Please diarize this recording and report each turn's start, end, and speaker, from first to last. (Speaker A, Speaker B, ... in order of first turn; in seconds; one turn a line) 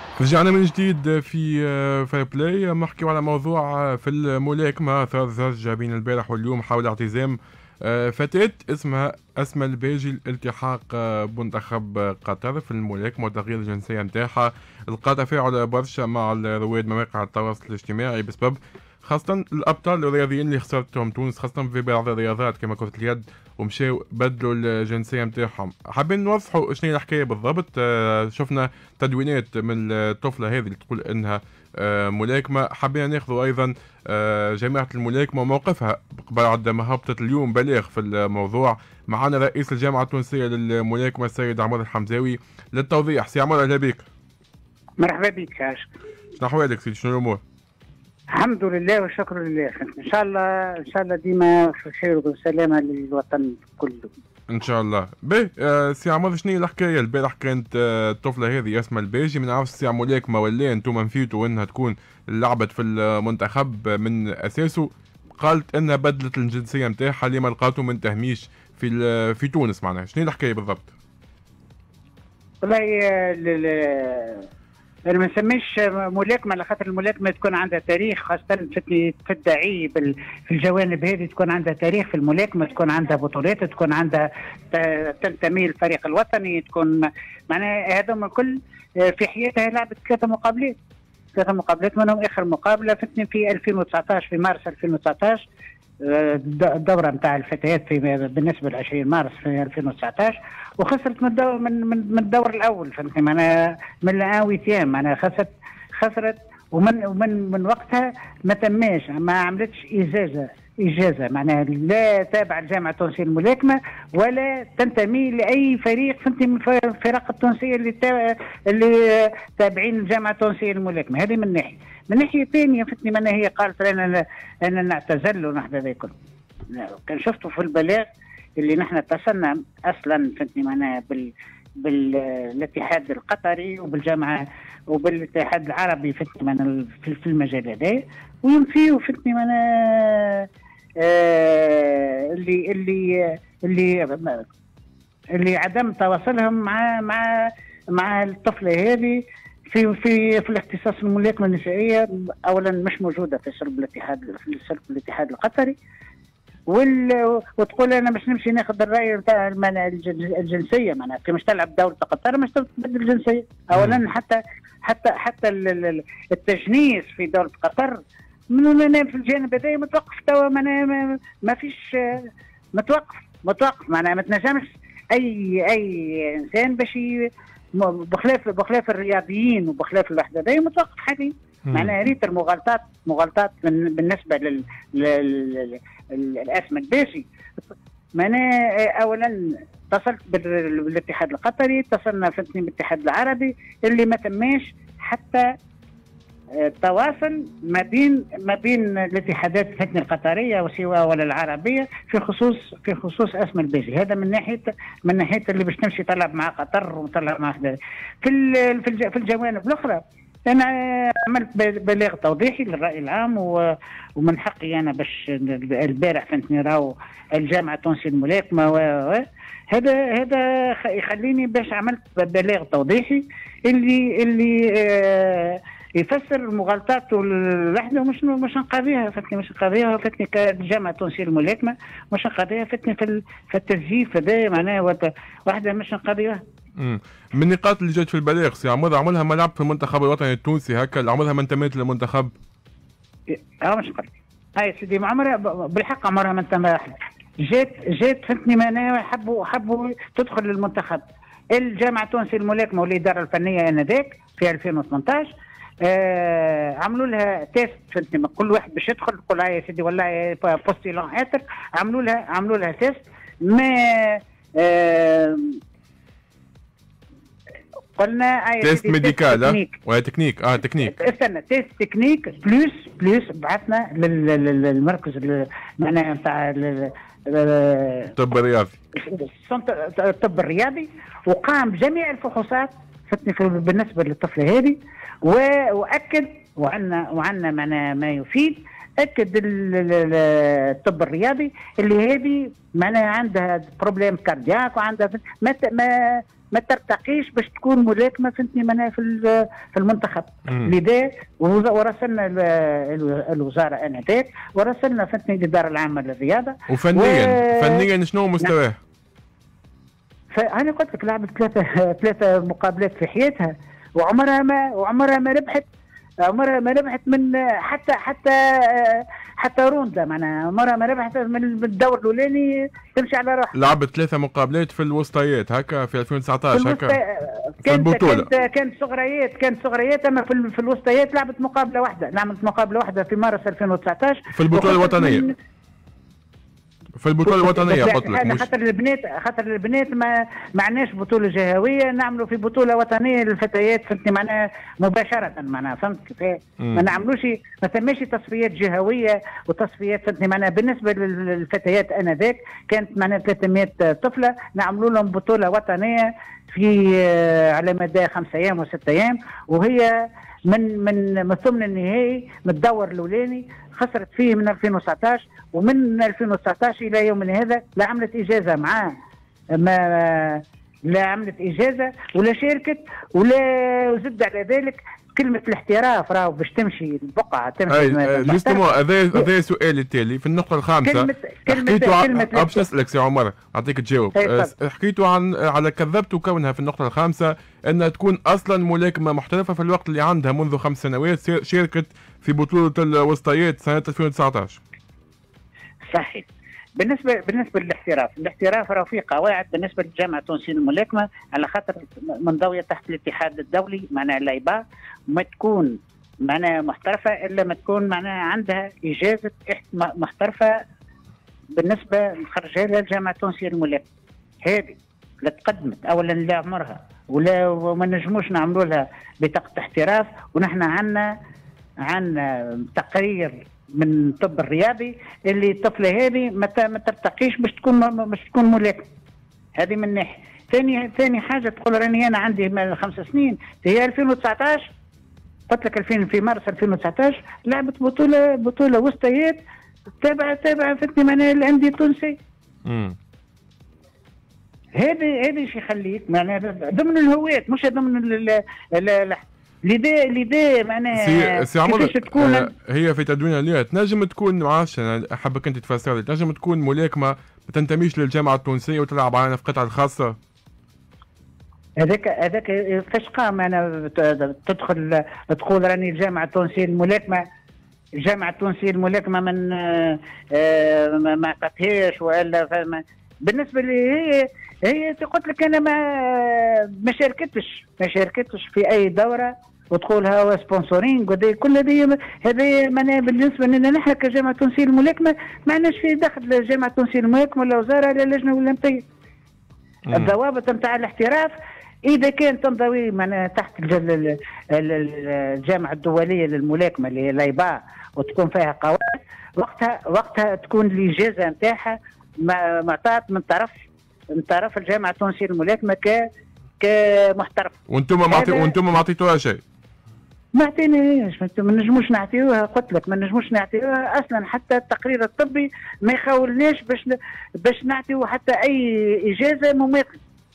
Speaker A: 0.2-44.0
Speaker B: 45.0-45.9
Speaker A: 46.4-47.4
Speaker B: 48.3-54.1
Speaker A: 54.5-70.9
Speaker B: 72.6-74.5
Speaker B: 75.1-90.7
Speaker B: 91.3-95.5
Speaker B: 96.0-126.2
Speaker B: 126.7-128.1
Speaker B: 128.6-140.5
Speaker B: 141.0-144.4
Speaker B: 145.3-155.8
Speaker B: 156.7-168.0
Speaker A: 163.7-164.0
Speaker B: 168.5-187.2
Speaker A: 181.7-181.9
Speaker B: 188.2-195.5
Speaker B: 196.6-236.4
Speaker A: 236.8-242.3
Speaker B: 243.3-251.0
Speaker B: 251.5-255.3
Speaker B: 255.8-265.6
Speaker B: 267.9-269.8
Speaker A: 268.6-270.9
Speaker B: 270.9-278.1
Speaker A: 278.2-278.8
Speaker B: 278.9-307.9
Speaker A: 300.5-300.7
Speaker A: 306.7-308.8
Speaker B: 310.3-315.7
Speaker B: 316.2-323.5
Speaker A: 323.5-327.0
Speaker B: 326.5-335.4
Speaker A: 327.6-328.3
Speaker A: 334.3-335.3
Speaker A: 337.0-338.5
Speaker B: 337.2-359.9
Speaker A: 346.6-346.9
Speaker B: 360.5-368.9
Speaker B: 369.5-379.3
Speaker A: 377.7-394.6
Speaker B: 380.8-382.6
Speaker B: 384.1-384.5
Speaker B: 395.9-410.6
Speaker B: 411.5-413.9
Speaker B: 414.4-421.1
Speaker B: 421.9-428.9
Speaker B: 429.6-434.7
Speaker B: 435.5-439.4
Speaker B: 440.0-442.2
Speaker A: 442.6-442.9
Speaker B: 444.8-452.5
Speaker A: 450.9-460.1
Speaker B: 461.8-467.2
Speaker B: 468.0-488.8
Speaker A: 489.9-490.1
Speaker B: 489.9-491.3
Speaker B: 491.9-506.0
Speaker B: 506.6-508.5
Speaker A: 507.7-509.4
Speaker B: 510.3-520.0